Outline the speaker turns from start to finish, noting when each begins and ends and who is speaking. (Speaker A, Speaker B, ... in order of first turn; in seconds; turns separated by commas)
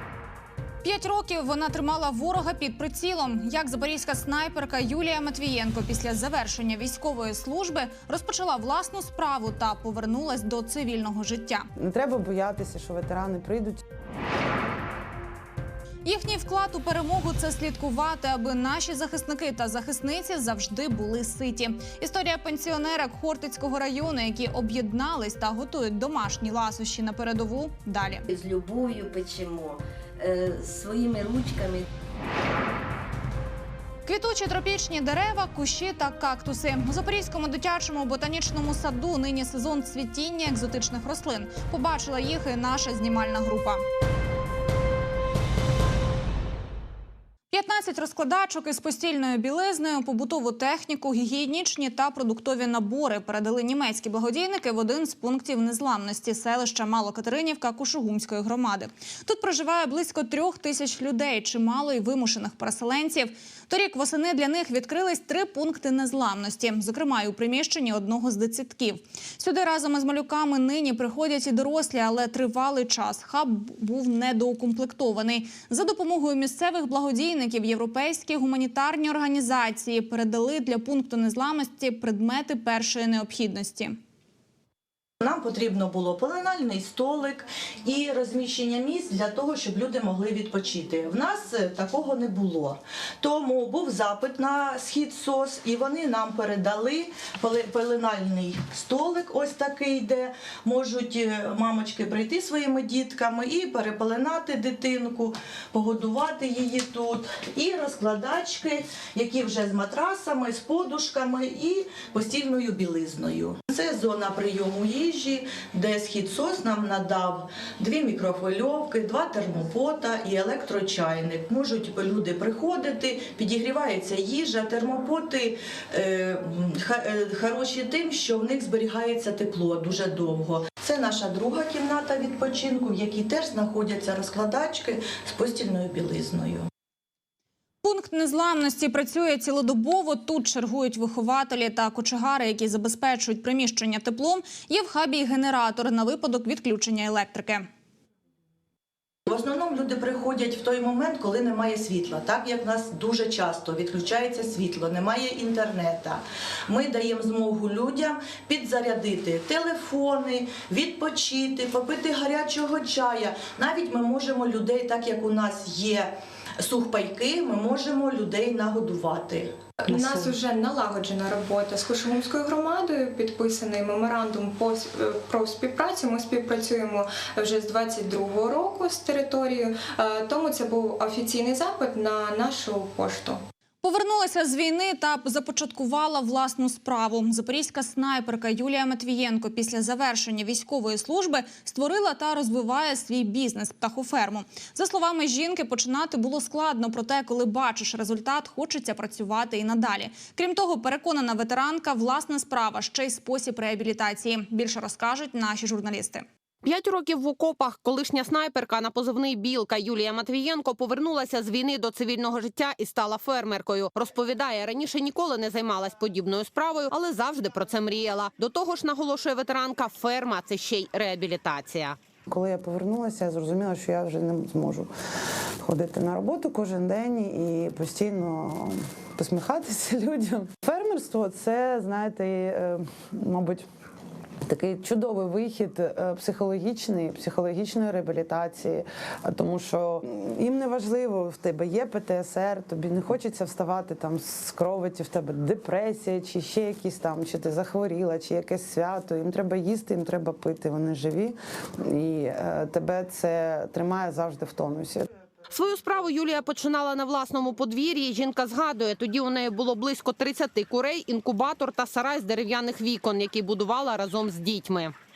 Speaker A: 0.8-11.7, Speaker B: 11.8-13.8, Speaker A: 16.0-28.2, Speaker C: 28.3-31.9, Speaker A: 34.0-43.8, Speaker A: 47.5-84.0, Speaker D: 85.2-136.7, Speaker A: 137.8-147.7, Speaker D: 149.3-169.5, Speaker E: 169.8-183.4, Speaker A: 183.8-206.2, Speaker F: 206.6-222.0, Speaker B: 222.3-224.9, Speaker B: 225.6-233.6, Speaker B: 234.4-255.1, Speaker F: 255.5-264.9